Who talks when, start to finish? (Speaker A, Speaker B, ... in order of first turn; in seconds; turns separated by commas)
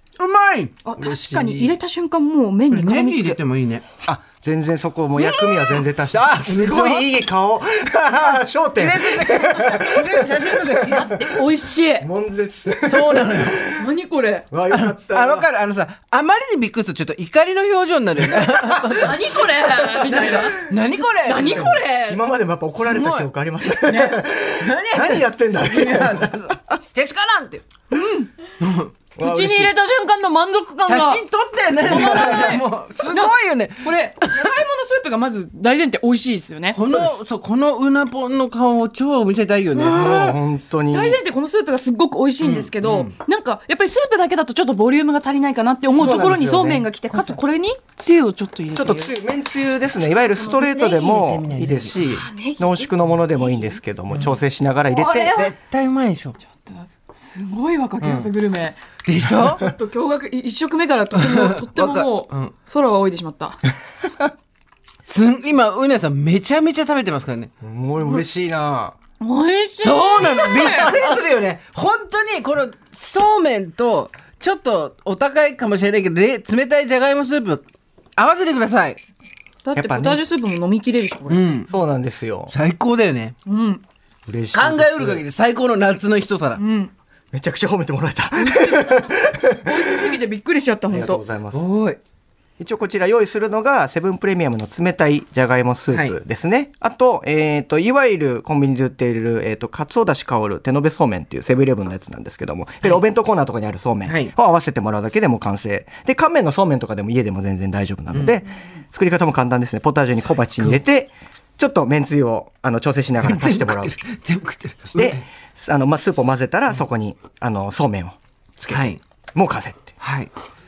Speaker A: 0.2-0.7, Speaker B: 0.8-3.4, Speaker C: 1.0-1.8, Speaker A: 2.7-3.9, Speaker C: 4.0-11.3, Speaker B: 5.2-5.9, Speaker A: 6.4-7.1, Speaker A: 8.8-11.2, Speaker B: 9.4-9.8, Speaker B: 10.9-12.1, Speaker C: 12.0-13.8, Speaker A: 12.9-13.6, Speaker B: 13.7-14.5, Speaker C: 14.5-15.5, Speaker A: 14.7-19.4, Speaker B: 18.9-22.2, Speaker C: 19.9-20.5, Speaker A: 20.6-21.7, Speaker C: 21.4-26.6, Speaker A: 22.9-23.3, Speaker A: 23.9-27.6, Speaker B: 27.9-28.3, Speaker A: 28.6-28.9, Speaker C: 29.2-29.7, Speaker B: 29.2-36.8, Speaker A: 30.9-34.6, Speaker A: 36.7-40.0, Speaker C: 36.9-37.2, Speaker B: 39.8-49.1, Speaker C: 39.9-41.2, Speaker A: 42.4-43.1, Speaker C: 45.9-46.9, Speaker A: 47.1-47.4, Speaker C: 48.7-55.4, Speaker B: 50.4-50.8, Speaker A: 50.7-52.1, Speaker B: 52.1-53.8, Speaker A: 54.1-54.4, Speaker B: 54.9-55.6, Speaker A: 55.3-56.4, Speaker B: 56.5-58.8, Speaker A: 58.0-58.3, Speaker A: 59.0-59.7, Speaker B: 59.3-63.6, Speaker A: 61.1-62.5, Speaker A: 65.0-67.5, Speaker C: 67.6-69.0, Speaker B: 69.2-71.0, Speaker A: 69.8-77.7, Speaker A: 78.2-79.0, Speaker B: 79.6-81.6, Speaker C: 79.8-80.2, Speaker A: 81.3-81.7, Speaker C: 81.7-82.5, Speaker A: 82.5-83.3, Speaker B: 83.5-83.8, Speaker C: 84.3-85.2, Speaker A: 84.5-86.6, Speaker B: 86.5-86.9, Speaker C: 87.3-90.1, Speaker B: 88.3-91.4, Speaker C: 90.9-91.7, Speaker A: 91.5-92.0, Speaker C: 92.6-114.0, Speaker A: 95.9-96.2, Speaker A: 104.0-104.3, Speaker A: 108.1-108.4, Speaker A: 113.2-115.2, Speaker C: 115.0-119.9, Speaker A: 118.7-119.0, Speaker A: 120.0-120.3